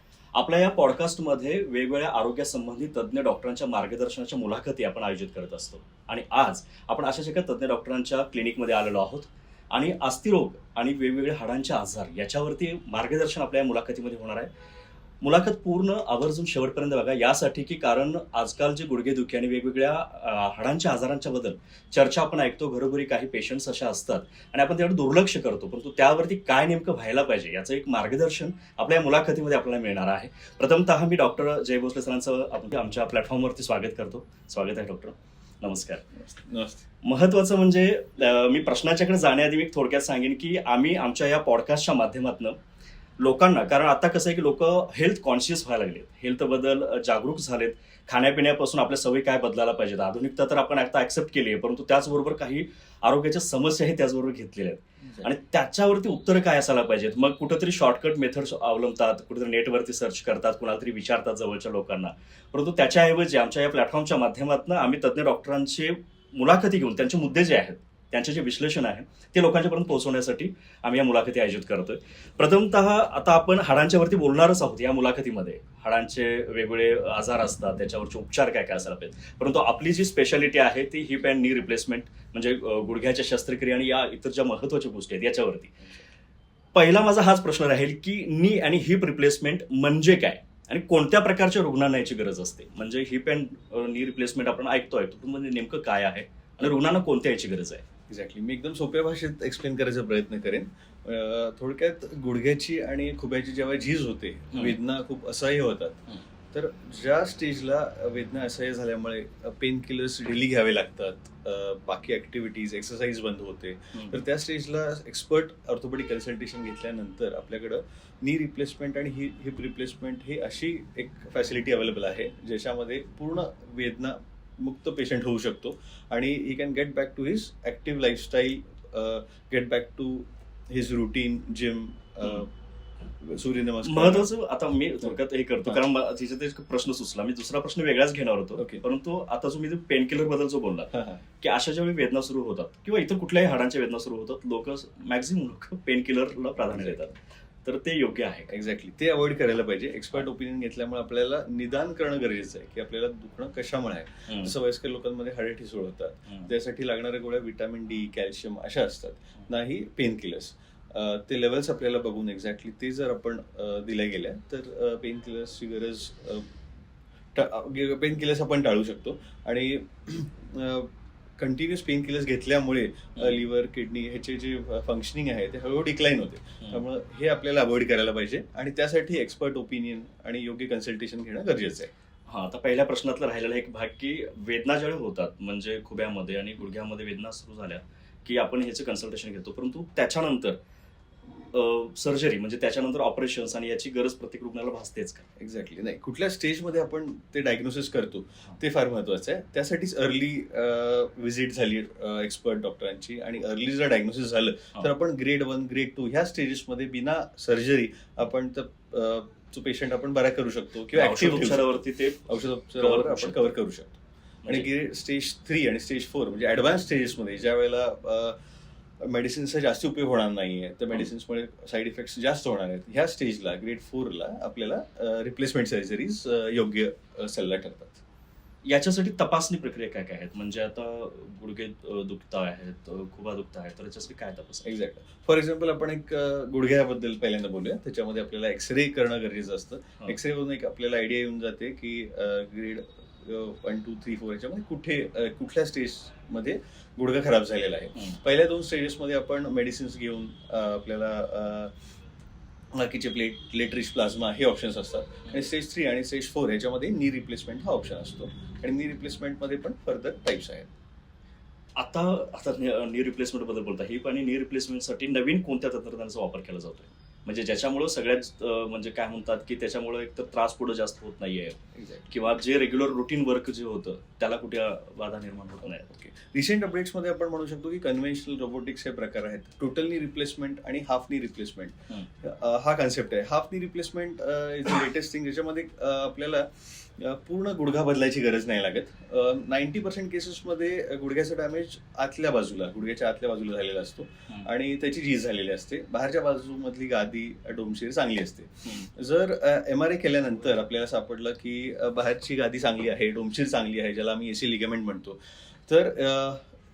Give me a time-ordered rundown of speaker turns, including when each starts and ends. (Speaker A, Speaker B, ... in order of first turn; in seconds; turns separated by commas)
Speaker A: 0.3-14.5, Speaker A: 15.2-36.1, Speaker B: 36.1-36.8, Speaker A: 37.0-42.6, Speaker A: 43.2-85.8, Speaker B: 55.0-55.3, Speaker A: 86.8-97.8, Speaker B: 98.1-132.5, Speaker A: 113.9-114.2, Speaker B: 133.2-134.3, Speaker A: 133.8-148.5, Speaker B: 135.0-135.8, Speaker B: 138.6-138.8, Speaker B: 140.9-141.2, Speaker B: 146.7-147.0, Speaker B: 148.5-166.5, Speaker A: 154.3-154.5, Speaker B: 167.3-181.9, Speaker A: 182.3-190.6, Speaker A: 191.5-195.2, Speaker B: 195.4-218.4, Speaker A: 210.9-213.5, Speaker B: 219.0-228.0, Speaker A: 228.7-234.7, Speaker B: 234.7-251.7, Speaker B: 252.7-260.7, Speaker A: 261.8-271.6, Speaker B: 271.8-272.2, Speaker A: 272.1-275.9, Speaker B: 275.8-306.5